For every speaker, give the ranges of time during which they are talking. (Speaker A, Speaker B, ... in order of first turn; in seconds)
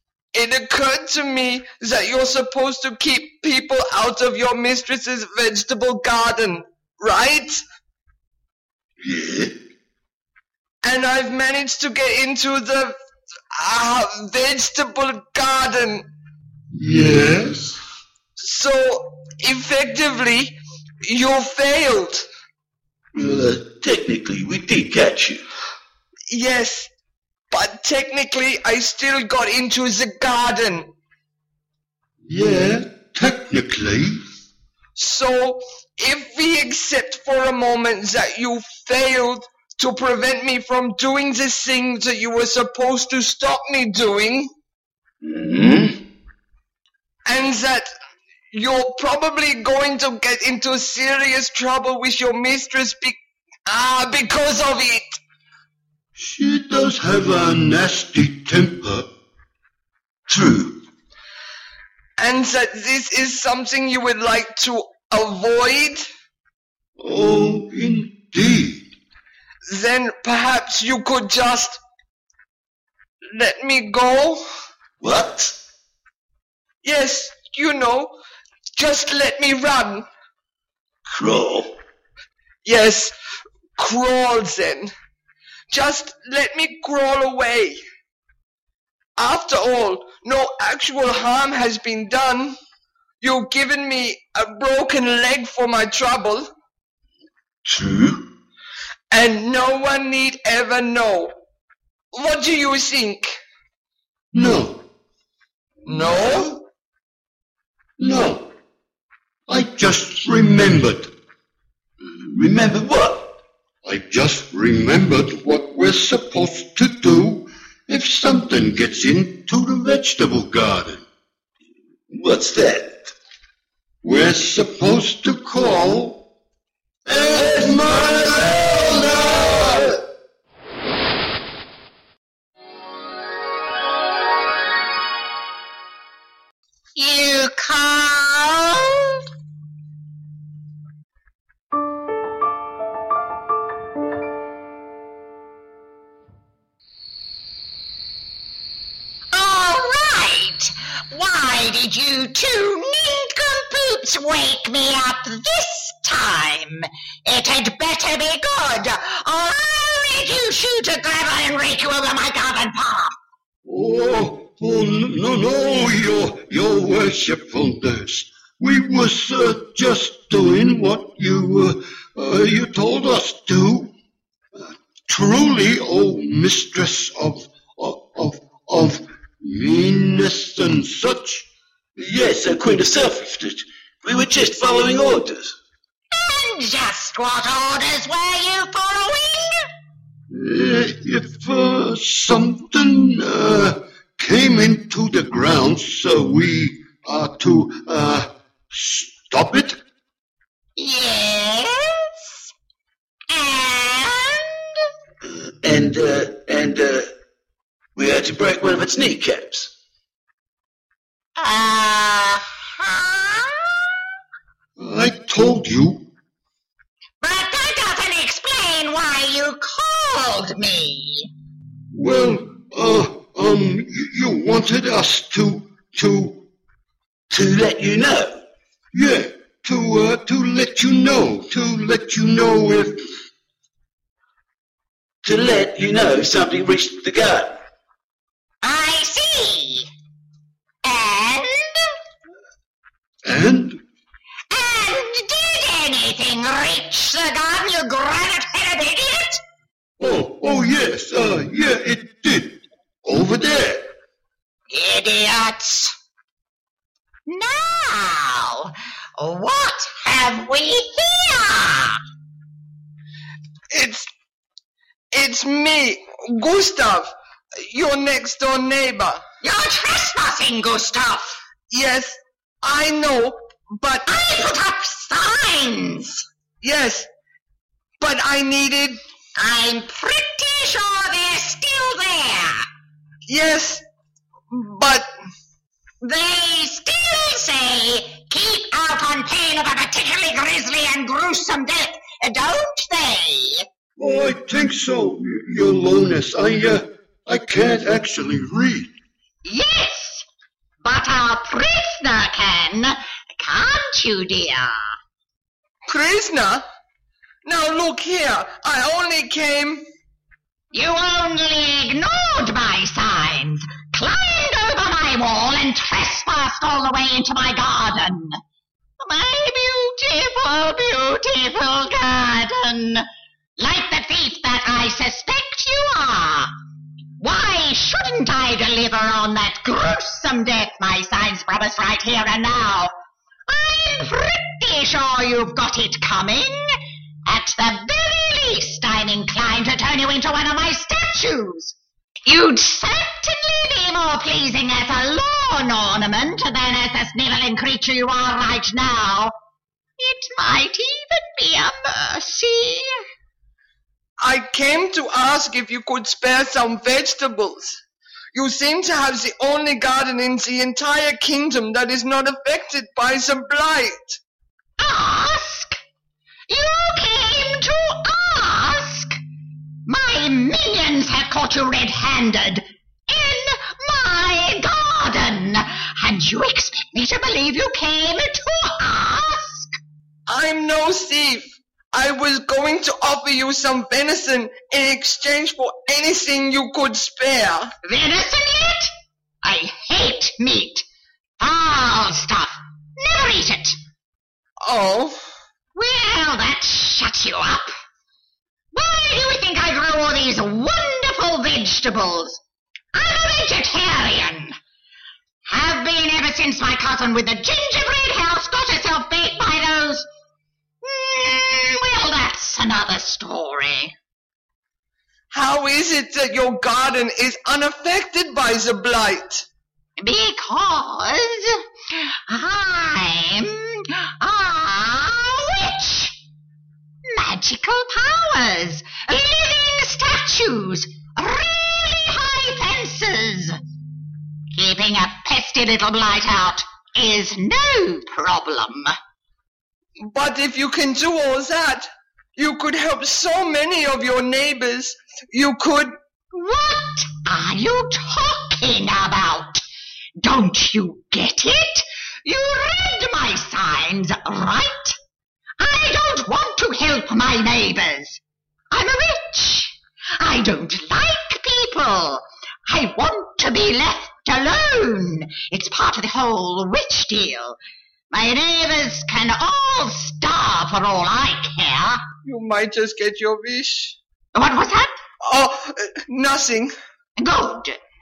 Speaker A: 0.3-7.6, 10.8-13.0, 13.5-16.1, 18.4-22.3, 26.3-26.9, 27.5-30.9, 35.0-44.5, 47.3-47.9, 48.5-53.2, 53.7-55.2, 62.2-66.1, 69.7-71.8, 73.3-74.4, 76.8-78.1, 78.8-80.1, 82.6-83.1, 83.8-84.9, 85.7-87.8, 89.2-92.6, 93.2-96.5, 99.1-101.3, 102.1-103.4, 105.9-106.5, 263.7-264.1, 265.1-267.1, 267.6-269.2, 271.7-274.1, 276.6-277.1, 278.0-279.0, 283.3-283.8, 284.5-285.1, 305.9-306.6, 307.4-309.9, 354.2-357.8, 358.3-364.2, 380.3-387.7, 394.6-395.2, 415.3-419.5, 440.0-445.9, 472.2-474.0, 475.2-476.7
Speaker B: 9.0-9.5, 23.1-25.4, 45.2-46.0, 60.3-60.7, 75.0-75.5, 81.1-81.7, 97.7-98.2, 112.2-113.2, 122.1-123.1, 127.3-129.9, 182.0-185.6, 205.6-207.1, 208.0-209.7, 227.3-228.4, 235.2-237.6
Speaker C: 16.8-17.8, 32.3-34.2, 56.2-59.1, 67.0-68.8, 104.3-104.8, 108.0-108.4, 109.5-111.1, 113.8-121.0, 124.0-126.2, 127.1-129.5, 163.7-173.9, 174.6-181.5, 190.3-199.8, 214.8-216.0, 221.9-226.4, 228.9-233.0, 243.2-243.8, 250.0-253.9, 294.0-298.9
Speaker D: 136.9-139.2, 149.3-163.1, 186.1-189.6, 200.8-202.5, 203.3-204.9, 211.4-213.9, 217.2-221.3, 238.6-239.9, 240.8-241.9, 244.5-249.4, 254.7-255.9, 257.3-262.0, 269.4-271.4, 274.1-276.2, 279.4-282.7, 286.0-293.6, 299.4-300.3, 300.8-304.9, 310.7-318.4, 319.0-323.1, 323.6-326.5, 327.2-332.9, 333.5-336.6, 337.3-349.4, 350.0-352.9, 364.8-365.8, 366.5-369.2, 369.9-379.8, 387.9-388.9, 389.4-390.9, 391.4-393.8, 395.8-397.7, 398.7-402.4, 402.9-404.6, 405.5-410.1, 410.8-413.9, 420.0-426.2, 427.1-433.6, 434.6-438.9, 446.3-449.6, 450.2-455.0, 455.6-467.6, 468.1-472.0, 474.4-474.9, 477.2-477.8